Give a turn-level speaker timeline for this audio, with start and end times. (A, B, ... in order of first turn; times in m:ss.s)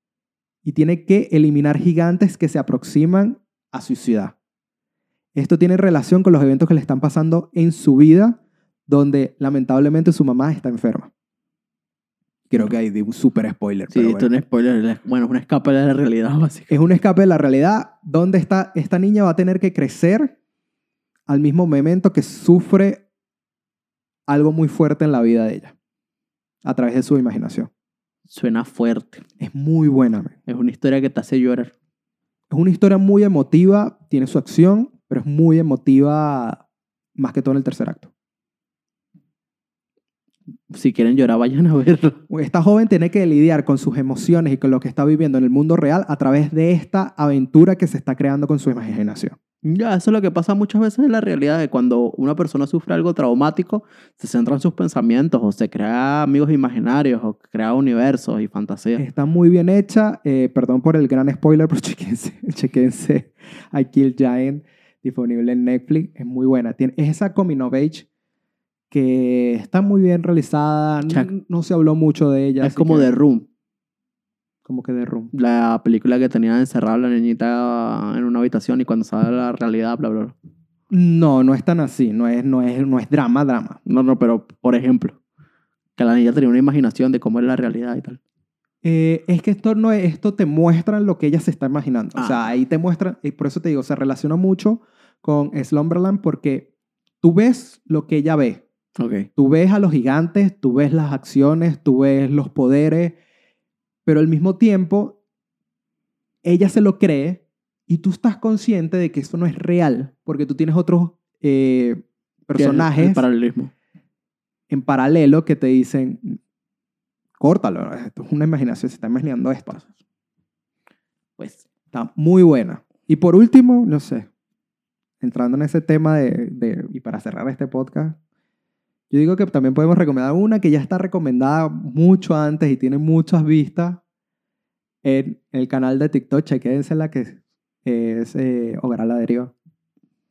0:00.6-0:04.3 A
0:05.3-0:11.1 A
0:12.5-0:14.3 A
0:13.9-0:16.7 B
0:16.7-0:20.4 A
0:21.3-0:23.0 A
0:24.3-0:25.7 A
0:26.6-0:27.7 A
0:28.3-0:29.2 B
0:29.4-0:30.3 A
0:30.5-0:31.7 B
0:32.5-0:36.6 A
0:37.2-0:38.1 A
0:40.7-0:42.2 B
0:42.3-0:49.4 A
0:49.6-0:59.0 B
0:59.0-1:08.0 A
1:08.9-1:13.1 A
1:11.0-1:11.3 B
1:12.6-1:13.5 B
1:14.6-1:15.3 A
1:15.3-1:20.3 B
1:20.9-1:23.8 A
1:23.8-1:25.2 B
1:26.0-1:28.2 B
1:28.8-1:36.7 A
1:32.1-1:32.4 B
1:37.2-1:38.6 A
1:39.0-1:39.3 B
1:39.4-1:43.2 A
1:44.0-1:45.2 A
1:46.4-1:53.2 A
1:52.5-1:53.7 B
1:54.7-1:56.4 A
1:57.4-1:59.8 A
2:01.4-2:01.6 B
2:01.9-2:04.3 A
2:05.2-2:08.2 A
2:09.1-2:14.0 A
2:15.0-2:19.5 A